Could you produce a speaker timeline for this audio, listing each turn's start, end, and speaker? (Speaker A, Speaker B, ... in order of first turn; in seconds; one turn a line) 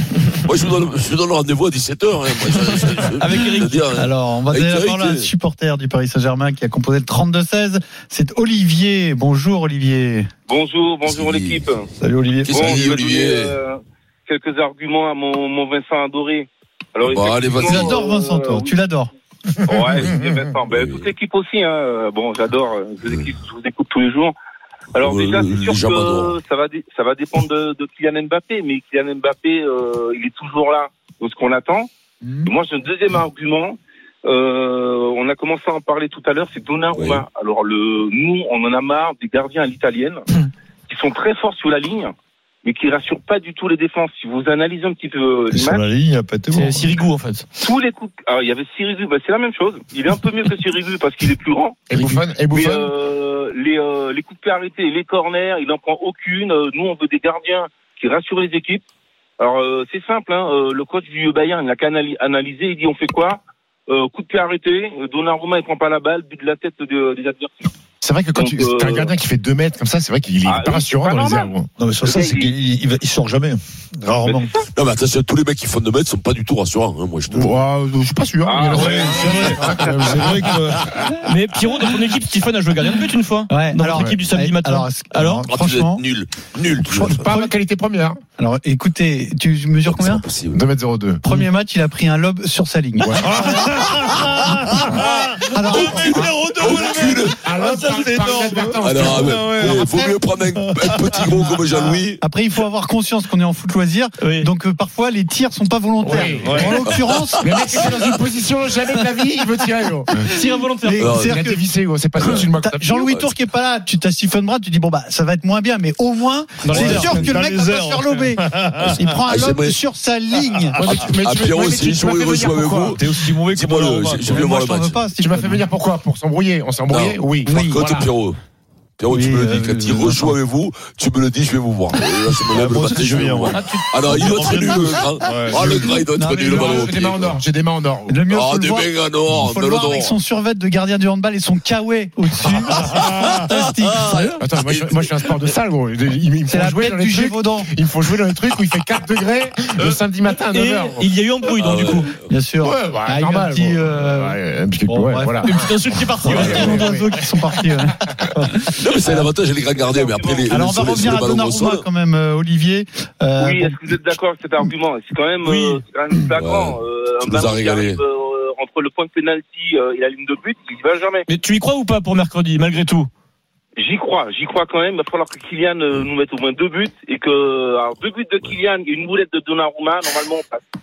Speaker A: 0.5-5.3
Speaker B: 3.1-3.8
Speaker C: 3.9-10.3
Speaker D: 10.5-11.9
Speaker A: 11.0-11.7
Speaker E: 12.0-12.5
Speaker A: 12.5-13.6
Speaker D: 12.5-18.8
Speaker A: 17.0-17.9
Speaker C: 17.7-19.1
Speaker D: 19.7-24.4
Speaker A: 19.9-21.1
Speaker A: 23.0-23.3
Speaker D: 24.9-40.2
Speaker A: 25.0-26.4
Speaker A: 36.9-37.3
Speaker D: 40.9-42.1
Speaker D: 42.6-45.8
Speaker E: 45.5-47.0
Speaker B: 46.5-47.5
Speaker D: 47.6-51.8
Speaker F: 51.9-52.9
Speaker D: 52.5-58.8
Speaker D: 59.4-67.7
Speaker F: 68.0-71.7
Speaker D: 68.3-69.1
Speaker D: 70.5-71.5
Speaker E: 71.8-74.5
Speaker D: 72.0-72.5
Speaker D: 74.3-74.7
Speaker A: 74.8-77.6
Speaker F: 77.3-80.6
Speaker D: 78.4-79.3
Speaker E: 78.7-80.9
Speaker B: 81.2-85.5
Speaker C: 83.5-86.0
Speaker F: 84.0-84.2
Speaker A: 85.5-87.3
Speaker F: 86.8-88.2
Speaker C: 88.4-90.2
Speaker A: 89.8-90.6
Speaker F: 90.5-91.2
Speaker C: 91.2-93.5
Speaker F: 93.0-93.6
Speaker E: 93.3-95.2
Speaker B: 95.2-98.7
Speaker C: 95.5-96.3
Speaker E: 95.7-96.3
Speaker F: 95.9-99.5
Speaker A: 96.6-97.4
Speaker E: 98.2-99.9
Speaker A: 98.8-102.2
Speaker C: 99.8-100.2
Speaker E: 100.5-101.3
Speaker C: 101.3-107.9
Speaker B: 104.2-104.5
Speaker F: 106.0-106.9
Speaker E: 106.4-106.8
Speaker F: 107.4-110.2
Speaker B: 110.3-111.0
Speaker C: 110.8-111.6
Speaker A: 111.0-111.3
Speaker F: 111.0-113.1
Speaker C: 112.2-120.8
Speaker E: 116.6-119.0
Speaker B: 116.7-117.2
Speaker A: 119.3-119.8
Speaker E: 120.5-121.0
Speaker F: 120.8-123.0
Speaker A: 120.9-125.0
Speaker E: 122.9-124.5
Speaker C: 124.3-125.6
Speaker F: 125.2-128.1
Speaker A: 126.9-128.4
Speaker C: 127.5-127.9
Speaker A: 129.0-137.4
Speaker C: 129.1-130.3
Speaker E: 132.5-136.0
Speaker C: 136.1-136.9
Speaker F: 136.5-138.2
Speaker C: 138.1-144.4
Speaker A: 138.3-140.1
Speaker A: 142.8-143.1
Speaker A: 143.9-145.4
Speaker F: 144.4-151.0
Speaker C: 146.5-147.7
Speaker B: 149.9-152.1
Speaker A: 151.6-152.3
Speaker C: 152.3-155.5
Speaker F: 152.6-157.4
Speaker B: 155.4-156.9
Speaker C: 156.2-158.0
Speaker A: 158.8-161.8
Speaker D: 159.7-160.6
Speaker C: 160.5-164.7
Speaker D: 163.4-171.3
Speaker B: 165.4-165.8
Speaker A: 166.3-168.0
Speaker B: 171.3-173.1
Speaker D: 173.8-180.7